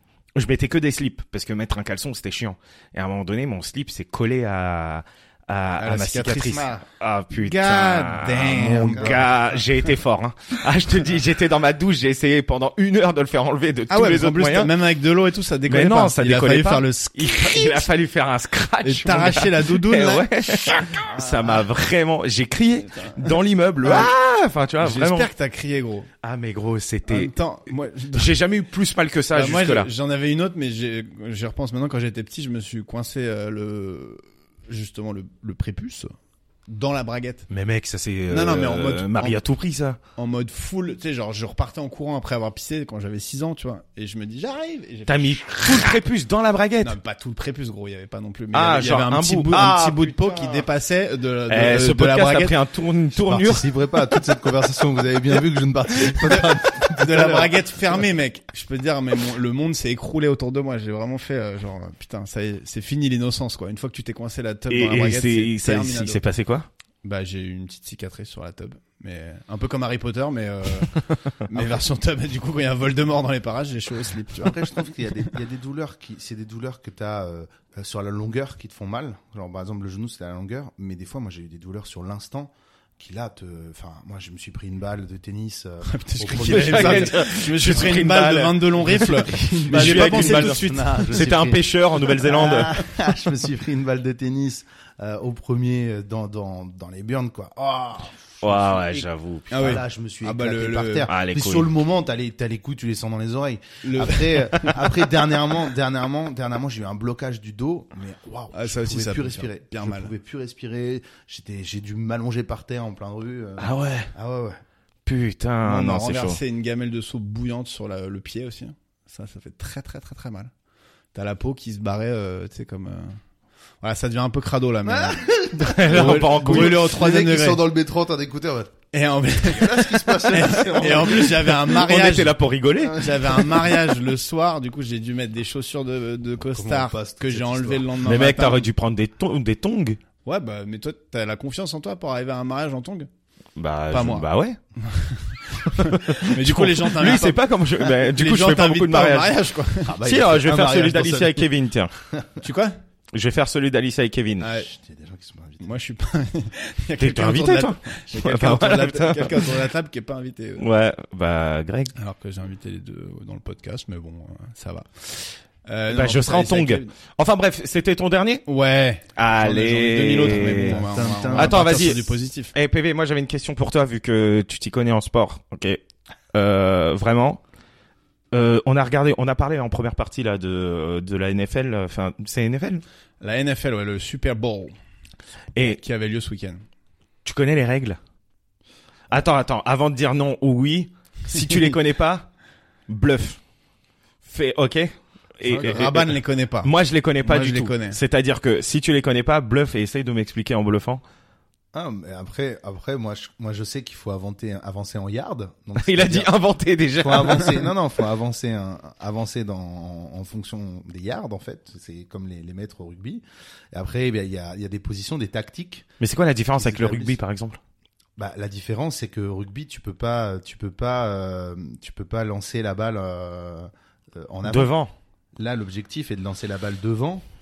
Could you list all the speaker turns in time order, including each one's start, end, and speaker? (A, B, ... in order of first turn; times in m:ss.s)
0:00.4-0:14.7 A
0:05.8-0:09.3 B
0:08.4-0:09.3 C
0:13.9-0:17.9 B
0:15.7-0:25.3 A
0:18.8-0:21.3 B
0:23.8-0:24.1 B
0:24.8-0:26.1 B
0:26.2-0:27.3 A
0:27.1-0:28.3 B
0:28.1-0:29.9 A
0:29.3-0:36.1 B
0:36.7-0:37.5 B
0:37.5-0:40.0 A
0:38.3-0:39.4 B
0:40.2-0:46.0 B
0:45.1-0:47.0 A
0:46.8-0:52.6 B
0:48.5-0:50.6 A
0:51.5-0:53.7 A
0:53.1-0:57.7 C
0:56.2-1:06.2 B
1:04.7-1:06.7 A
1:07.0-1:14.7 B
1:14.4-1:28.0 C
1:25.9-1:31.3 B
1:26.3-1:32.8 A
1:28.9-1:54.6 C
1:38.4-1:39.8 A
1:39.5-1:41.1 B
1:41.1-1:41.7 A
1:43.8-1:44.9 B
1:48.5-1:50.1 B
1:53.6-1:54.1 A
1:55.0-1:56.4 A
1:55.6-2:00.5 B
2:01.1-2:03.2 B
2:03.8-2:05.3 B
2:04.8-2:08.8 C
2:05.6-2:06.9 A
2:05.9-2:07.7 B
2:08.9-2:18.6 B
2:09.4-2:11.6 C
2:11.3-2:13.5 A
2:12.8-2:13.8 C
2:16.4-2:17.9 C
2:18.0-2:20.0 A
2:20.2-2:23.1 B
2:23.6-2:24.6 A
2:23.9-2:24.3 B
2:24.8-2:30.0 B
2:25.6-2:29.4 A
2:29.9-2:31.5 C
2:30.0-2:31.9 A
2:32.1-2:32.4 C
2:32.4-2:32.8 B
2:33.1-2:34.5 A
2:34.4-2:34.7 B
2:34.6-2:35.7 C
2:35.6-2:40.6 B
2:37.0-2:39.6 A
2:40.6-2:41.9 A
2:42.0-2:46.9 B
2:45.9-2:48.4 A
2:48.5-2:52.5 B
2:49.1-2:57.4 A
2:50.4-2:51.9 C
2:58.3-3:02.8 A
3:03.2-3:04.7 B
3:05.6-3:05.8 A
3:05.6-3:06.6 B
3:07.2-3:08.0 A
3:09.1-3:12.3 A
3:12.9-3:13.4 A
3:14.2-3:21.0 A
3:15.4-3:16.0 C
3:15.6-3:16.7 B
3:17.2-3:18.0 B
3:21.7-3:26.3 C
3:25.8-3:27.6 A
3:27.0-3:35.9 C
3:36.0-3:37.6 A
3:36.6-3:37.2 C
3:38.2-3:44.7 C
3:44.4-3:44.9 A
3:45.4-3:47.2 C